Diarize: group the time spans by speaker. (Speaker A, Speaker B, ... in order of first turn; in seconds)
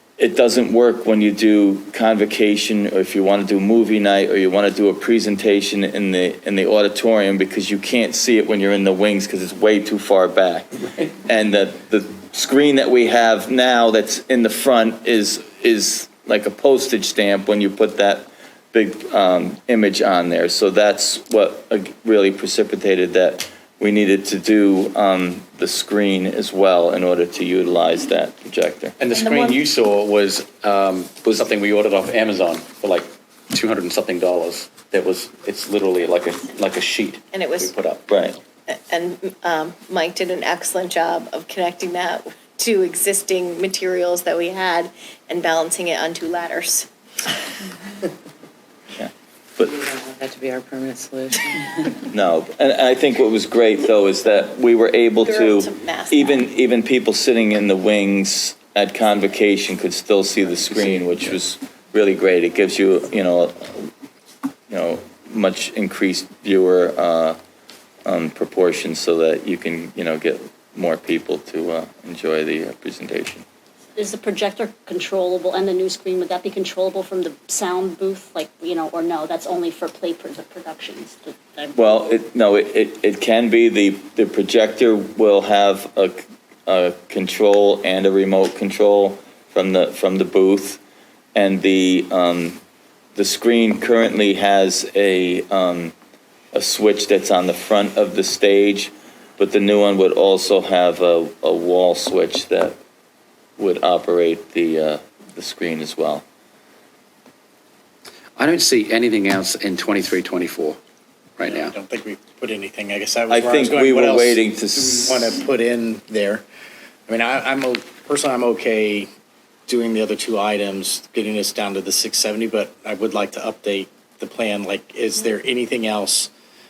Speaker A: 0.2-28.9, 38.1-38.4, 49.0-49.8, 52.1-63.9, 64.7-67.4, 68.0-73.4, 81.7-90.8, 91.3-92.6, 93.2-95.9, 96.5-102.8, 103.6-106.2, 113.3-115.3
Speaker B: 29.0-38.0, 60.8-61.2, 108.4-110.8, 111.4-111.7
Speaker C: 29.1-29.6, 37.3-37.7, 38.7-46.9, 55.2-56.4
Speaker D: 49.8-51.9
Speaker E: 74.0-81.8
Speaker F: 111.4-116.4, 117.1-119.1, 119.7-126.3